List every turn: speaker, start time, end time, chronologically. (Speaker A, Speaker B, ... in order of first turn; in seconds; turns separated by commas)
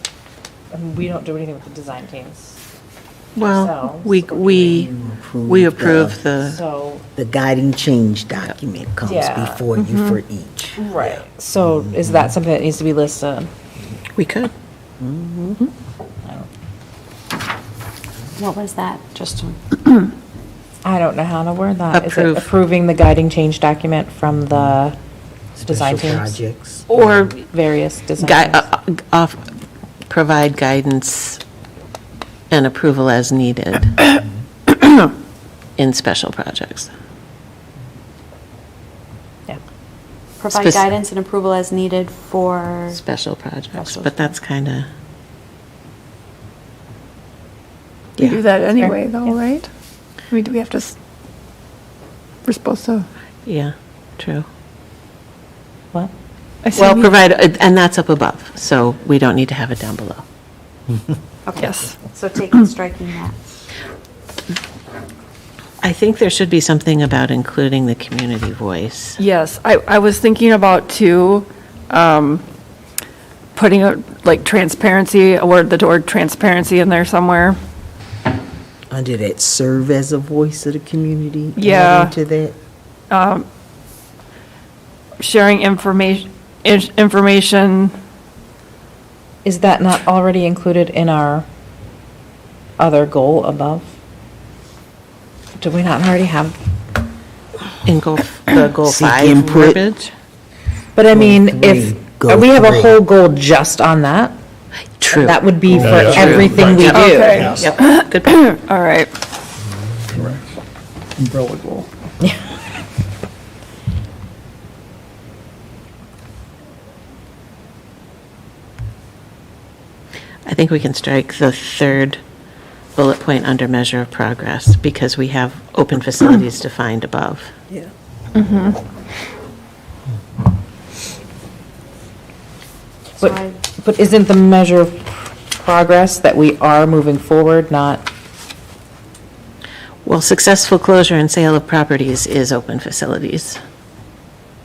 Speaker A: 0.7-2.6, Speaker B: 3.4-4.9, Speaker A: 3.5-4.8, Speaker C: 4.5-6.2, Speaker B: 5.5-6.6, Speaker A: 6.4-7.1, Speaker C: 7.2-12.3, Speaker A: 9.1-9.6, Speaker D: 9.8-10.2, Speaker A: 10.8-13.5, Speaker B: 14.2-14.5, Speaker C: 15.0-15.6, Speaker A: 16.2-16.5, Speaker E: 18.4-19.6, Speaker A: 20.8-25.0, Speaker B: 21.9-22.5, Speaker A: 25.6-26.4, Speaker C: 25.6-27.3, Speaker D: 26.9-27.3, Speaker A: 26.9-28.7, Speaker B: 28.2-29.4, Speaker B: 30.1-31.4, Speaker B: 32.5-34.1, Speaker B: 35.8-36.9, Speaker E: 40.4-43.0, Speaker B: 40.5-40.9, Speaker B: 42.9-44.9, Speaker E: 43.7-44.3, Speaker B: 48.2-48.4, Speaker D: 48.2-49.7, Speaker D: 50.3-51.0, Speaker D: 52.5-53.1, Speaker B: 53.5-54.5, Speaker D: 56.6-57.1, Speaker B: 56.7-60.2, Speaker E: 61.5-63.4, Speaker D: 61.6-62.0, Speaker B: 65.8-69.2, Speaker D: 69.2-72.4, Speaker D: 73.5-77.6, Speaker C: 78.9-82.6, Speaker D: 81.6-82.1, Speaker D: 83.1-83.5, Speaker D: 85.2-88.0, Speaker A: 89.4-91.5, Speaker A: 92.8-93.9, Speaker A: 95.6-96.6, Speaker B: 97.8-100.1, Speaker C: 98.8-99.8, Speaker A: 101.0-104.3, Speaker C: 101.1-103.0, Speaker B: 105.0-105.4, Speaker A: 105.1-107.5, Speaker F: 105.7-106.9, Speaker B: 106.1-108.5, Speaker D: 106.9-109.1, Speaker C: 107.3-107.7, Speaker F: 110.1-110.4, Speaker F: 111.2-111.9, Speaker B: 120.5-122.2, Speaker B: 123.0-127.5, Speaker D: 128.3-128.8, Speaker E: 133.2-133.6, Speaker A: 133.2-138.1, Speaker B: 140.1-143.6